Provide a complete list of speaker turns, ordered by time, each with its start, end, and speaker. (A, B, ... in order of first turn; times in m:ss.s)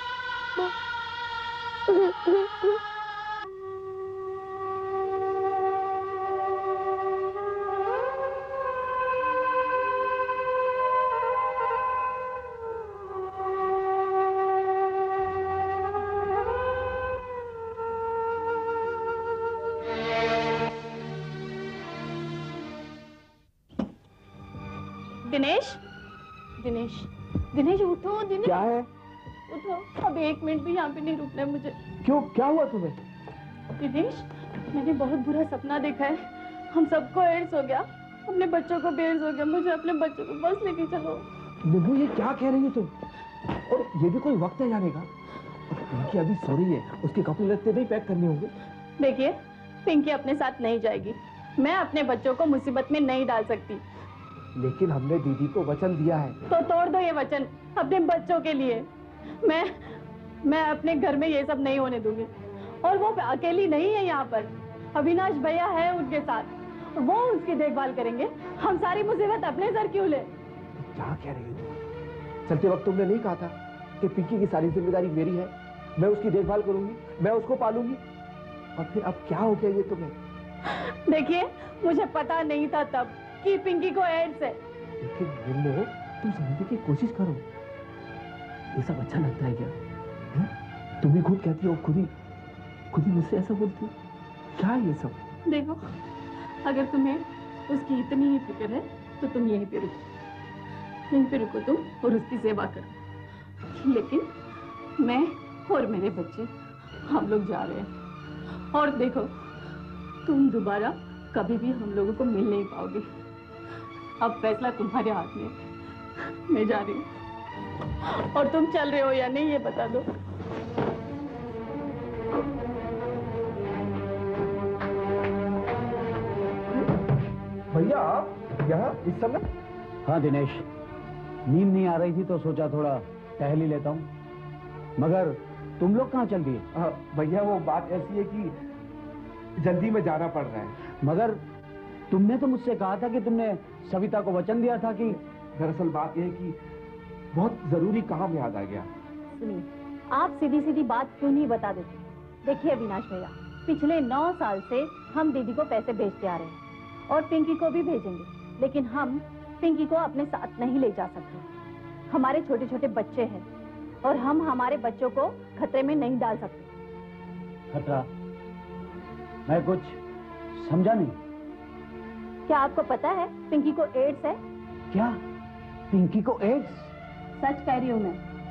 0:25.2-0:25.8 A
0:26.6-0:28.6 A
0:28.4-0:28.9 B
0:29.5-0:31.7 A
0:32.0-0:33.0 B
0:33.8-0:41.2 A
0:41.6-0:42.9 B
0:43.6-0:45.1 B
0:45.7-0:48.5 B
0:49.0-0:53.8 A
0:54.6-0:56.4 B
0:56.5-0:58.8 A
0:59.4-0:59.9 A
1:00.4-1:02.3 A
1:02.8-1:10.3 A
1:10.8-1:11.7 B
1:12.4-1:18.0 B
1:18.8-1:20.1 B
1:20.7-1:24.6 A
1:25.0-1:27.4 B
1:28.7-1:29.7 B
1:31.0-1:32.1 B
1:32.9-1:33.9 B
1:34.6-1:35.2 B
1:35.4-1:35.9 A
1:36.6-1:40.0 A
1:41.1-1:42.9 A
1:43.7-1:44.3 A
1:45.0-1:46.5 A
1:47.0-1:47.9 A
1:48.7-1:49.3 A
1:50.2-1:53.0 A
1:54.2-1:55.5 A
1:56.5-1:57.1 A
1:58.2-2:00.0 A
2:07.7-2:09.4 B
2:10.0-2:10.6 C
2:11.5-2:14.1 C
2:15.0-2:16.6 C
2:16.7-2:18.5 B
2:19.6-2:20.8 B
2:21.0-2:21.4 C
2:22.1-2:25.2 C
2:25.6-2:26.6 B
2:27.3-2:28.9 B
2:29.3-2:41.4 A
2:42.1-2:43.4 A
2:44.0-2:46.7 A
2:47.7-2:48.1 C
2:49.4-2:50.0 C
2:50.5-2:51.2 C
2:52.5-2:54.4 A
2:54.9-2:55.2 C
2:55.9-2:56.9 C
2:57.4-2:58.2 A